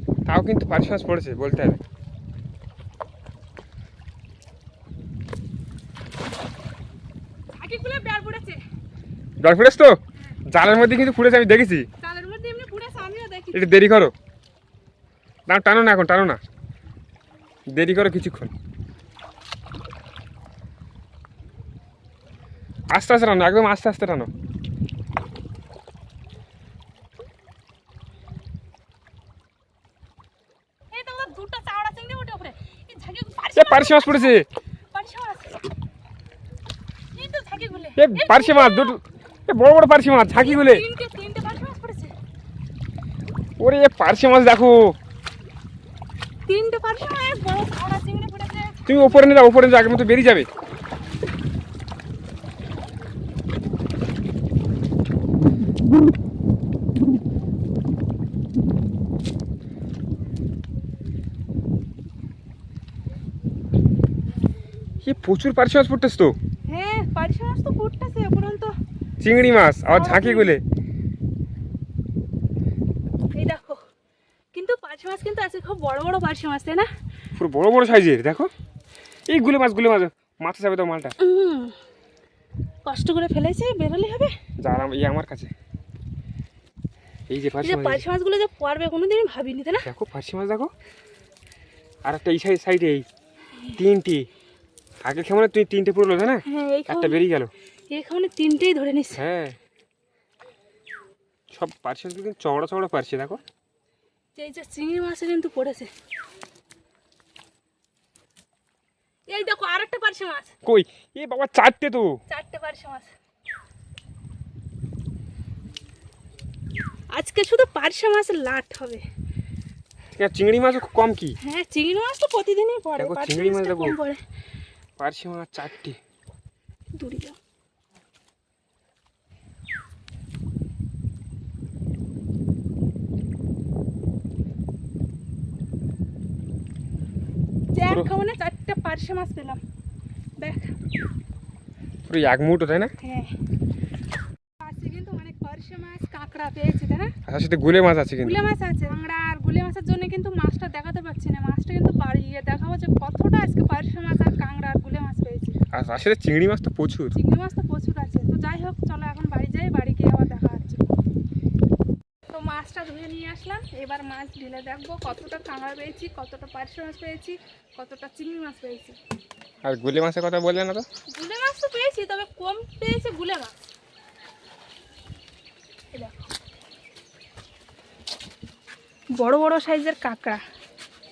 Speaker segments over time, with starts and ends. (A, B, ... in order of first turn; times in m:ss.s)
0:00.3-0:01.8 A
0:07.5-0:08.6 B
0:09.4-0:09.9 A
0:10.5-0:11.9 A
0:12.0-0:13.7 B
0:13.5-0:14.1 A
0:15.5-0:16.4 A
0:17.7-0:18.5 A
0:22.9-0:24.3 A
0:30.9-0:34.4 B
0:33.6-0:34.4 A
0:34.9-0:35.6 B
0:37.1-0:38.9 B
0:38.0-0:40.8 A
0:40.3-0:42.1 B
0:43.6-0:44.9 A
0:46.5-0:49.3 B
0:48.9-0:50.5 A
1:05.0-1:06.3 A
1:06.7-1:08.7 B
1:09.2-1:10.6 A
1:09.9-1:10.5 B
1:13.3-1:13.8 B
1:14.5-1:16.9 B
1:17.4-1:18.5 A
1:19.3-1:21.1 A
1:21.2-1:21.8 B
1:22.9-1:24.3 B
1:24.6-1:25.5 A
1:27.3-1:28.0 A
1:27.6-1:29.8 B
1:29.8-1:30.7 A
1:32.0-1:33.0 A
1:33.7-1:34.2 A
1:35.0-1:37.5 A
1:36.4-1:37.2 B
1:37.9-1:39.2 B
1:39.1-1:39.6 A
1:41.5-1:43.4 A
1:44.4-1:45.9 B
1:49.3-1:50.5 B
1:50.6-1:52.1 A
1:52.3-1:53.1 B
1:57.1-1:59.0 B
2:00.2-2:01.4 A
2:01.4-2:04.2 B
2:03.0-2:04.0 A
2:05.0-2:06.0 A
2:06.9-2:07.4 B
2:17.7-2:19.6 B
2:20.4-2:20.7 B
2:22.1-2:22.9 A
2:23.0-2:23.3 B
2:24.6-2:27.1 B
2:27.2-2:28.4 A
2:28.2-2:35.5 B
2:35.7-2:37.2 A
2:37.1-2:40.8 B
2:42.3-2:49.0 B
2:49.6-2:50.8 A
2:51.1-2:53.7 B
2:55.9-2:56.3 B
2:59.2-3:00.4 B